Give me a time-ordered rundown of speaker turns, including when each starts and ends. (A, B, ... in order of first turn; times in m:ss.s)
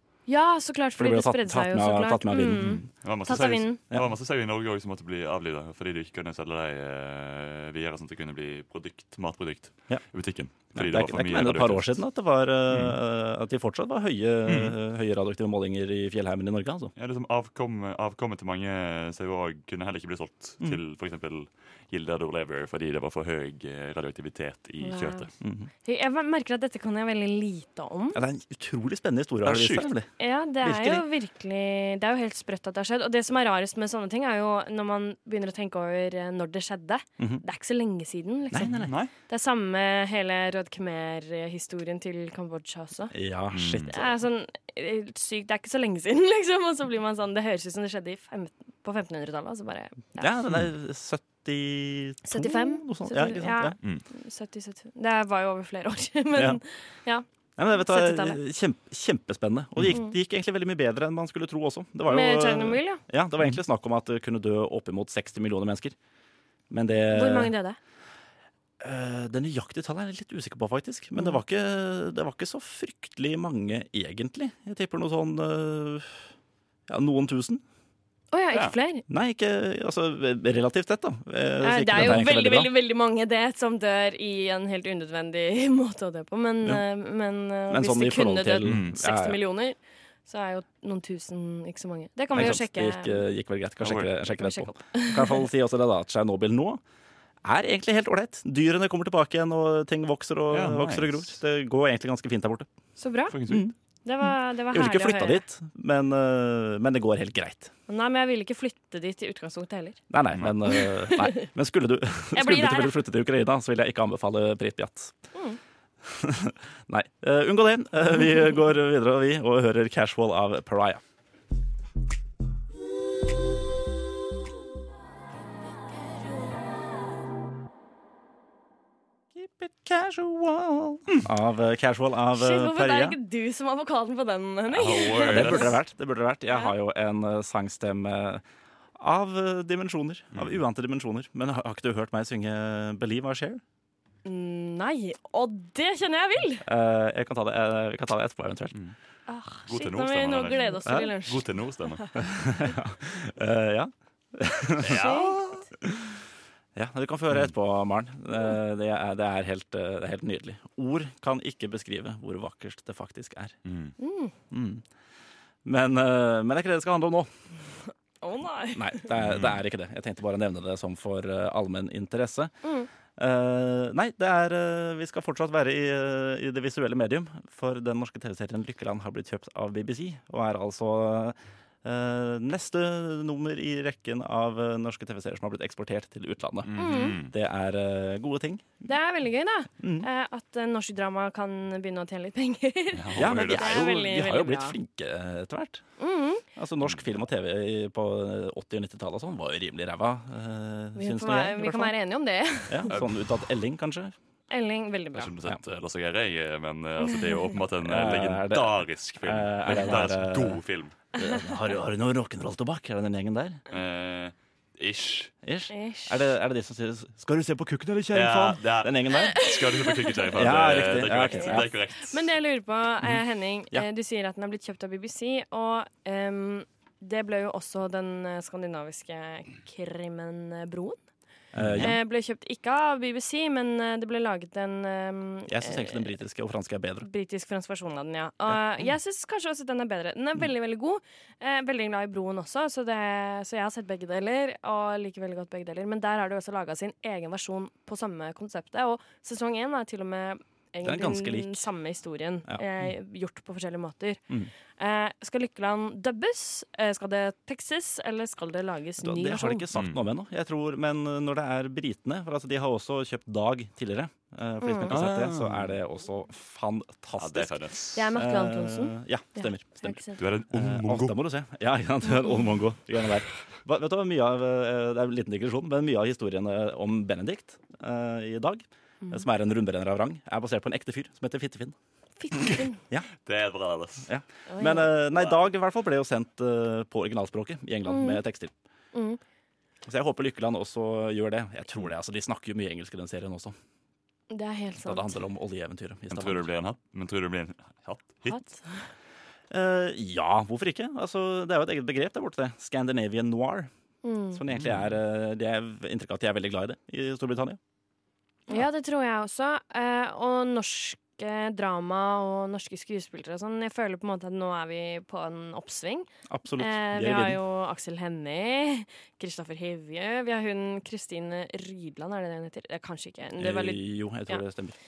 0:00.3-0:03.8 A
0:01.0-0:02.9 B
0:03.0-0:12.0 C
0:10.7-0:16.9 B
0:12.7-0:13.0 C
0:14.5-0:14.7 C
0:17.0-0:25.3 C
0:24.8-0:25.3 A
0:25.4-0:25.7 B
0:25.8-0:28.2 A
0:28.1-0:30.1 B
0:29.4-0:29.9 C
0:30.2-0:38.7 A
0:30.6-0:31.0 B
0:38.5-0:38.9 B
0:38.7-0:39.1 C
0:39.3-0:43.1 A
0:43.1-0:44.1 B
0:43.5-0:43.9 C
0:43.9-0:50.3 A
0:50.2-0:53.8 B
0:52.2-0:58.4 A
0:56.3-0:56.6 B
0:57.6-1:05.9 B
1:02.1-1:03.0 A
1:06.7-1:07.5 B
1:07.1-1:07.8 A
1:08.8-1:16.2 B
1:16.9-1:17.6 B
1:18.3-1:19.0 A
1:19.1-1:22.7 B
1:21.6-1:33.2 A
1:27.7-1:29.4 B
1:28.6-1:28.9 C
1:32.3-1:36.8 B
1:33.8-1:34.1 C
1:34.3-1:35.4 A
1:37.4-1:42.7 B
1:40.5-1:41.3 C
1:43.0-1:43.4 A
1:43.3-1:43.7 C
1:43.5-1:43.7 B
1:44.0-1:45.4 A
1:44.7-1:47.7 B
1:47.9-1:50.0 A
1:50.1-1:55.1 B
1:50.7-1:51.4 A
1:52.3-1:53.0 A
1:56.0-2:01.0 B
2:09.3-2:13.2 B
2:12.3-2:15.8 A
2:14.7-2:15.8 C
2:15.3-2:18.4 B
2:19.0-2:23.6 B
2:20.3-2:20.6 C
2:24.2-2:26.6 A
2:26.6-2:28.8 B
2:29.3-2:31.5 A
2:29.7-2:32.0 C
2:30.8-2:31.1 B
2:32.1-2:35.2 B
2:34.8-2:35.4 C
2:34.9-2:35.6 A
2:35.8-2:36.1 B
2:36.8-2:43.6 B
2:43.6-2:43.9 C
2:44.0-2:44.3 A
2:44.5-2:44.8 B
2:45.6-2:47.3 B
2:48.2-2:49.1 A
2:48.7-2:52.5 B
2:49.2-2:49.6 C
2:53.2-3:08.8 B
3:06.6-3:07.3 C
3:06.7-3:07.2 A
3:08.8-3:14.8 A
3:09.8-3:10.1 B
3:12.9-3:13.8 C
3:13.2-3:15.8 B
3:16.0-3:16.4 A
3:16.6-3:21.9 B
3:21.0-3:22.9 A
3:22.7-3:24.1 B
3:22.9-3:23.2 C
3:24.5-3:25.3 A
3:25.1-3:30.9 C
3:27.8-3:30.6 B
3:31.1-3:33.6 B
3:33.7-3:35.3 C
3:35.4-3:39.4 B
3:35.7-3:36.2 A
3:38.1-3:42.2 C
3:39.1-3:40.4 A
3:40.3-3:41.7 B
3:41.3-3:51.0 A
3:51.5-3:52.0 B
3:51.6-3:51.9 C
3:51.8-3:56.1 A
3:55.5-3:57.1 B
3:57.0-4:14.2 A
4:10.8-4:11.6 B
4:14.8-4:19.6 A
4:19.0-4:27.6 B
4:19.7-4:20.0 C
4:24.6-4:25.0 A
4:24.9-4:25.7 C
4:27.2-4:28.0 C
4:27.9-4:30.2 A
4:28.1-4:41.8 B
4:30.2-4:31.2 C
4:42.2-4:42.8 A
4:43.2-4:44.1 C
4:44.0-4:48.5 B
4:44.5-4:45.1 A
4:47.8-4:48.2 A
4:48.9-4:49.2 A
4:49.8-4:53.6 B
4:54.3-4:55.2 A
4:54.8-4:56.5 B
4:56.1-4:58.4 C
4:58.3-4:58.8 A
4:59.5-5:03.7 B
5:04.0-5:04.4 A
5:04.3-5:07.6 B
5:04.5-5:05.0 C
5:08.5-5:24.4 A
5:16.3-5:17.4 B
5:23.4-5:24.7 B